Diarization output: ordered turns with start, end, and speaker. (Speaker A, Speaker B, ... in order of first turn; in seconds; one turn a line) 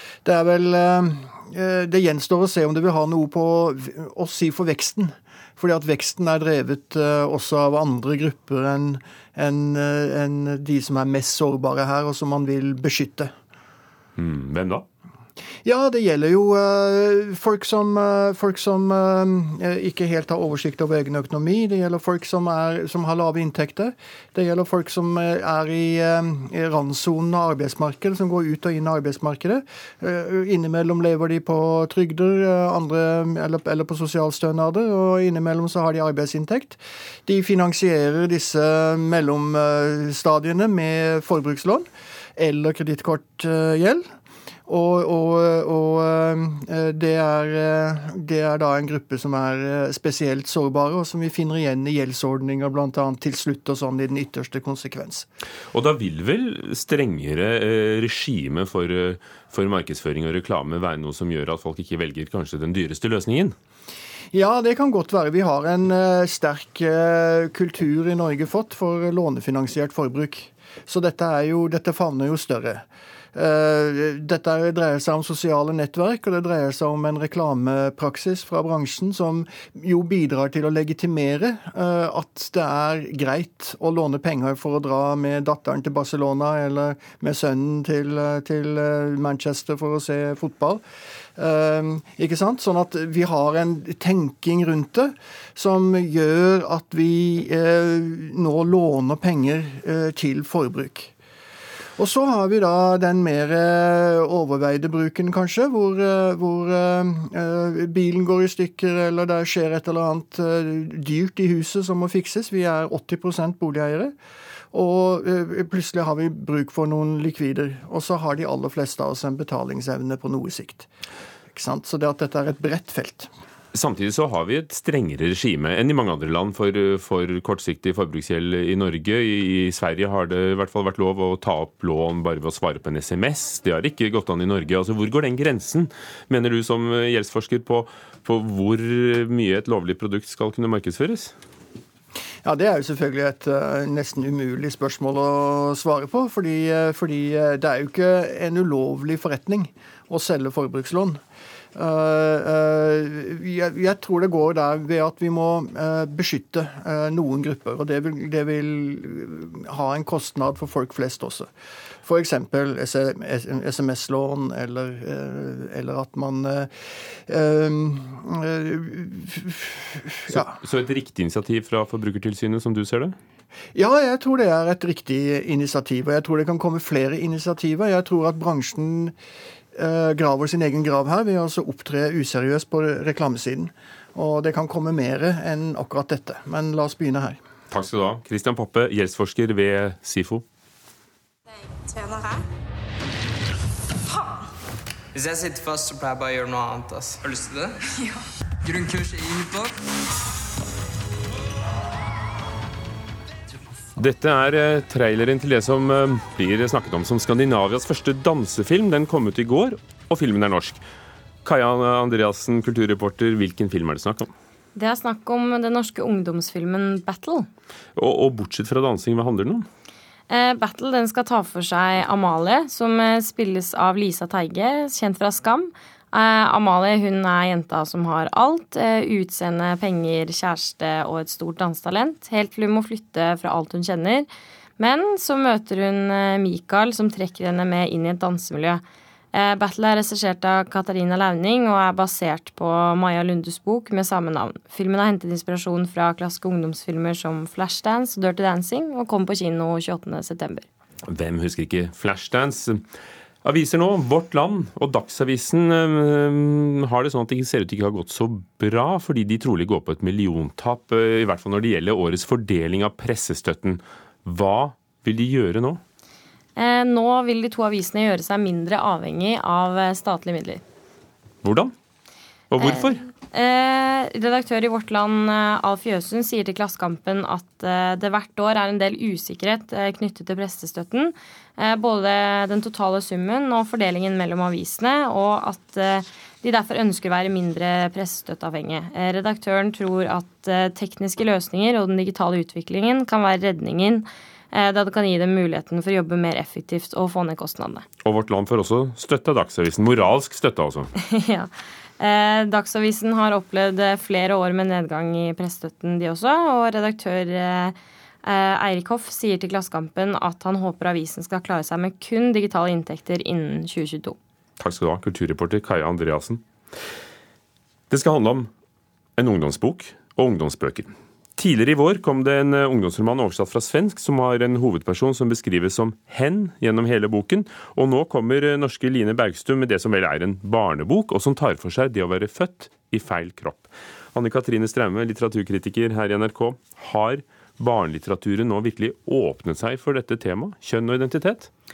Speaker A: 0.2-13.3
Speaker B: 14.2-14.8
Speaker A: 15.6-41.8
Speaker A: 42.4-44.0
Speaker A: 44.6-55.3
Speaker B: 55.7-63.5
Speaker A: 64.3-72.8
Speaker A: 73.3-90.8
Speaker A: 91.4-101.1
Speaker A: 102.0-114.1
Speaker A: 114.7-120.9
Speaker A: 121.5-123.3
Speaker B: 123.7-141.3
Speaker A: 142.4-151.2
Speaker A: 151.7-161.5
Speaker A: 162.0-166.7
Speaker A: 167.3-170.5
Speaker B: 170.3-173.1
Speaker A: 173.7-179.1
Speaker A: 179.7-187.4
Speaker B: 187.7-190.4
Speaker C: 195.1-197.7
Speaker C: 198.7-199.7
Speaker B: 204.0-210.8
Speaker B: 211.4-214.3
Speaker D: 214.7-217.5
Speaker B: 217.9-219.7
Speaker D: 220.3-234.3
Speaker D: 234.8-238.8
Speaker D: 239.3-250.7
Speaker B: 251.1-252.8
Speaker B: 253.4-265.8
Speaker D: 266.6-270.6
Speaker B: 271.4-271.7
Speaker B: 272.5-273.0
Speaker D: 272.6-297.8
Speaker B: 298.0-300.9
Speaker D: 301.0-314.2
Speaker B: 314.6-316.4
Speaker B: 317.9-318.5
Speaker B: 319.2-341.5